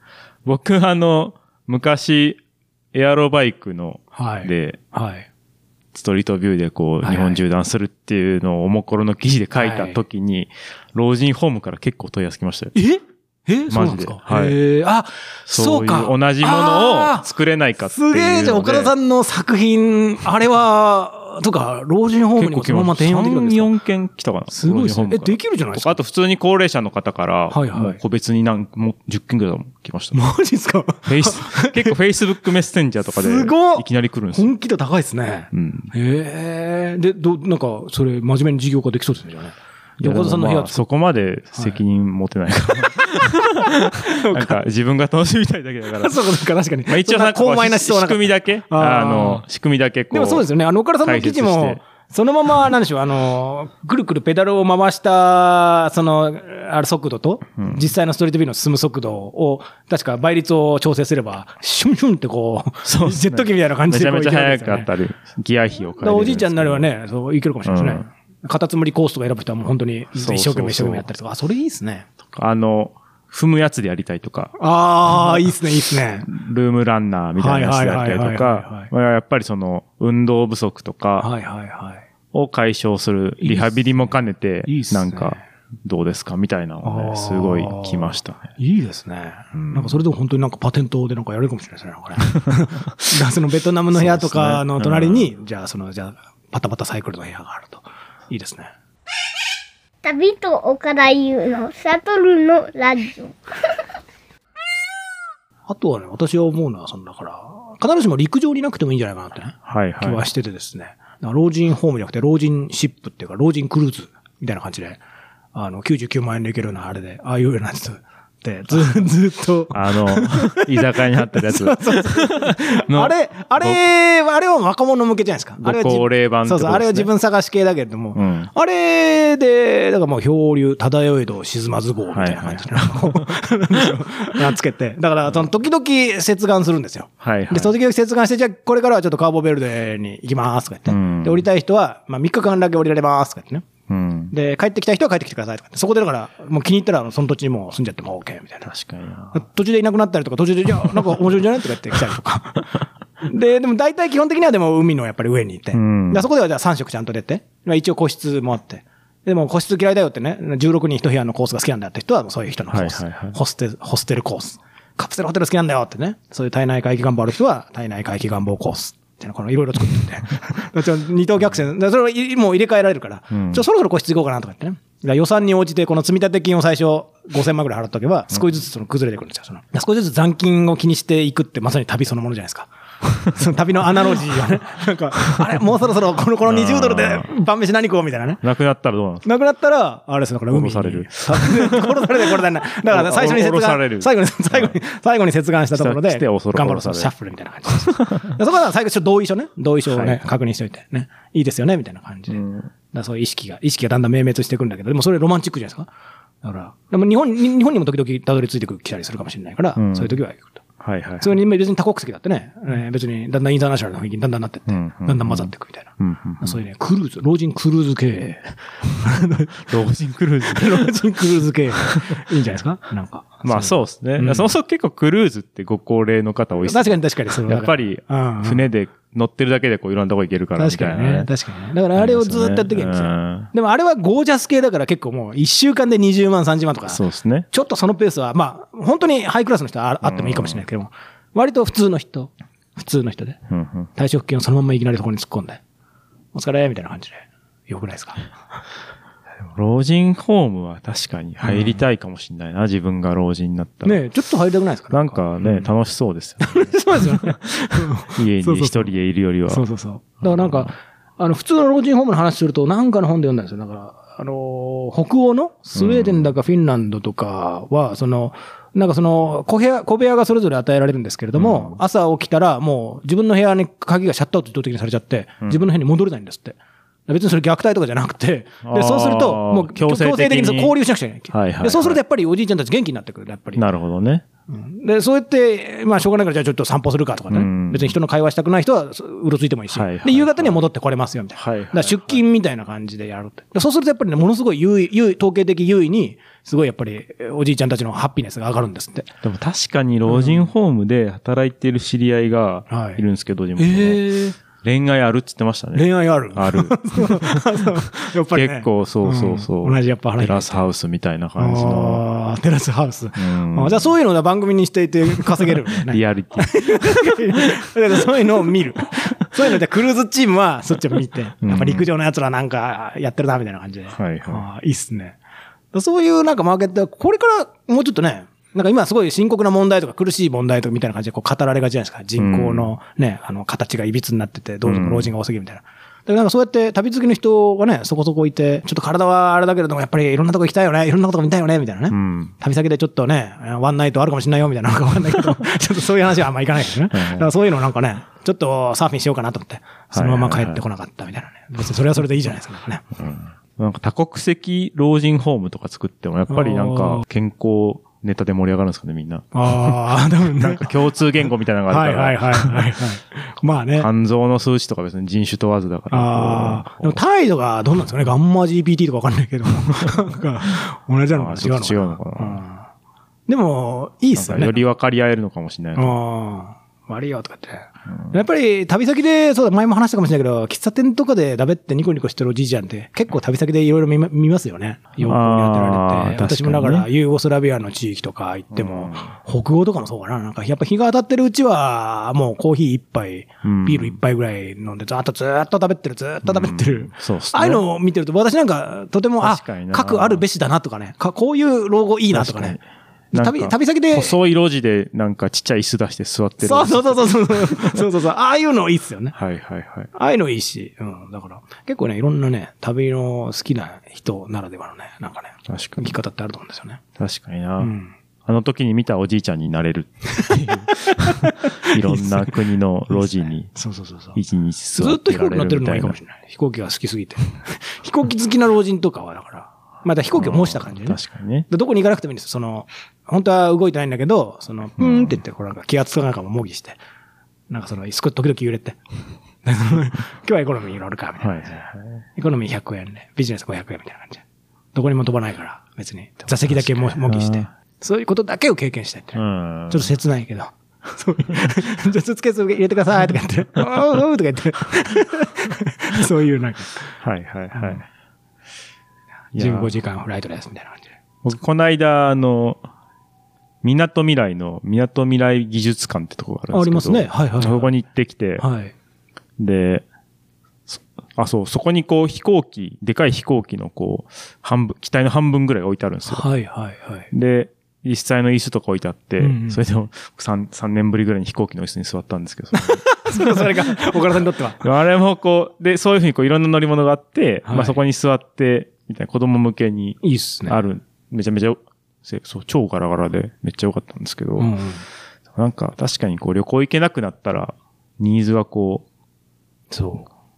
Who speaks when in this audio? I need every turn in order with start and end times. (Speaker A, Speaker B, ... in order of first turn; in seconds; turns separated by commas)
Speaker A: 0.4-2.4, Speaker A: 2.9-4.8, Speaker B: 4.1-5.3, Speaker A: 5.9-12.7, Speaker B: 7.0-7.4, Speaker B: 9.5-10.0, Speaker B: 12.7-17.3, Speaker A: 13.7-14.6, Speaker A: 15.5-18.9, Speaker B: 17.9-23.7, Speaker A: 22.4-30.2, Speaker B: 24.5-26.0, Speaker B: 27.5-28.0, Speaker B: 30.1-31.9, Speaker A: 31.1-34.5, Speaker B: 33.1-40.8, Speaker A: 35.5-35.9, Speaker A: 40.0-46.3, Speaker B: 43.6-44.6, Speaker B: 46.0-49.4, Speaker A: 46.9-50.5, Speaker B: 50.1-64.9, Speaker A: 51.0-51.8, Speaker A: 57.6-57.9, Speaker A: 62.8-66.9, Speaker B: 66.0-72.1, Speaker A: 67.6-68.0, Speaker A: 70.2-71.0, Speaker A: 72.3-74.5, Speaker B: 74.6-76.3, Speaker A: 75.1-75.5, Speaker A: 76.2-81.3, Speaker B: 77.4-78.9, Speaker B: 81.2-82.0, Speaker A: 82.3-88.5, Speaker B: 83.4-83.9, Speaker B: 84.7-85.4, Speaker B: 86.8-98.7, Speaker A: 89.5-89.9, Speaker A: 93.9-95.3, Speaker C: 100.0-103.4, Speaker B: 105.7-115.0, Speaker A: 109.7-110.2, Speaker B: 115.5-143.7, Speaker A: 119.7-123.8, Speaker A: 125.6-127.1, Speaker A: 128.1-128.5, Speaker A: 132.1-133.9, Speaker A: 137.2-137.7, Speaker A: 140.9-141.4, Speaker A: 143.9-144.3, Speaker B: 144.3-148.7, Speaker A: 148.7-149.3, Speaker B: 149.3-188.4, Speaker A: 155.7-156.2, Speaker A: 162.7-163.4, Speaker A: 173.3-173.6, Speaker A: 186.4-187.3, Speaker A: 188.4-189.2, Speaker B: 189.2-205.9, Speaker A: 190.5-194.8, Speaker A: 195.7-197.1, Speaker A: 197.9-198.3, Speaker A: 199.9-200.2, Speaker A: 202.3-202.7, Speaker B: 206.4-210.6, Speaker A: 209.8-210.1, Speaker A: 210.8-211.4, Speaker B: 211.2-219.7, Speaker A: 214.7-216.6, Speaker A: 219.6-220.9, Speaker B: 220.4-224.5, Speaker A: 221.9-222.2, Speaker A: 223.4-231.3, Speaker B: 226.6-228.6, Speaker B: 230.6-243.4, Speaker A: 231.9-233.5, Speaker A: 236.9-237.5, Speaker A: 240.0-240.6, Speaker A: 243.5-243.9, Speaker B: 243.9-245.6, Speaker B: 246.3-248.3, Speaker A: 249.5-254.0, Speaker B: 251.4-251.8, Speaker B: 253.8-255.7, Speaker A: 254.9-259.6, Speaker B: 256.4-258.9, Speaker B: 259.5-283.6, Speaker A: 260.2-260.7, Speaker A: 265.7-266.3, Speaker A: 271.4-271.8, Speaker A: 278.6-280.7, Speaker A: 281.3-282.0, Speaker A: 283.6-284.2, Speaker B: 284.5-299.1, Speaker A: 287.3-287.9, Speaker A: 289.7-290.6, Speaker A: 291.4-292.2, Speaker A: 299.2-312.0, Speaker B: 300.1-300.4, Speaker B: 302.7-303.0, Speaker B: 303.6-304.4, Speaker B: 305.7-310.7, Speaker B: 311.4-325.2, Speaker A: 313.1-313.9, Speaker A: 315.4-317.6, Speaker A: 321.4-321.9, Speaker A: 323.9-324.4, Speaker B: 325.7-352.9, Speaker A: 332.2-332.7, Speaker A: 334.6-335.1, Speaker A: 341.9-342.3, Speaker A: 346.9-347.3, Speaker A: 349.9-350.6, Speaker A: 353.0-362.7, Speaker B: 356.3-357.0, Speaker B: 359.3-360.7, Speaker B: 361.7-363.9, Speaker A: 363.7-367.0, Speaker B: 365.9-372.6, Speaker A: 371.1-372.4, Speaker B: 373.3-374.6, Speaker A: 374.1-375.9, Speaker B: 375.8-402.6, Speaker A: 385.0-386.9, Speaker A: 388.5-389.1, Speaker A: 393.4-394.0, Speaker A: 396.2-397.6, Speaker A: 399.2-400.2, Speaker A: 402.1-407.8, Speaker B: 403.1-404.1, Speaker B: 406.4-409.1, Speaker A: 409.1-409.9, Speaker B: 409.9-416.8, Speaker A: 415.5-415.9, Speaker A: 417.0-417.7, Speaker B: 417.6-417.9, Speaker A: 418.2-423.5, Speaker B: 420.9-422.3, Speaker B: 422.9-424.2, Speaker A: 424.1-426.0, Speaker B: 424.8-436.8, Speaker A: 430.1-431.5, Speaker A: 434.8-435.2, Speaker B: 437.5-438.8, Speaker B: 439.4-441.6, Speaker A: 441.2-442.0, Speaker B: 442.1-444.2, Speaker B: 444.7-456.9, Speaker A: 446.5-447.5, Speaker A: 449.1-449.9, Speaker A: 457.0-457.8, Speaker B: 457.5-457.8, Speaker A: 459.3-459.7, Speaker B: 459.3-460.9, Speaker A: 461.2-462.6, Speaker A: 463.6-468.4, Speaker B: 466.5-467.7, Speaker B: 468.4-468.7, Speaker A: 469.4-469.8, Speaker A: 470.7-476.2, Speaker B: 476.1-477.1, Speaker A: 477.1-484.0, Speaker B: 479.2-479.6, Speaker B: 482.5-484.6, Speaker A: 484.6-494.5, Speaker B: 487.4-487.8, Speaker B: 490.0-490.6, Speaker B: 494.4-494.8, Speaker A: 495.3-498.8, Speaker B: 499.7-500.1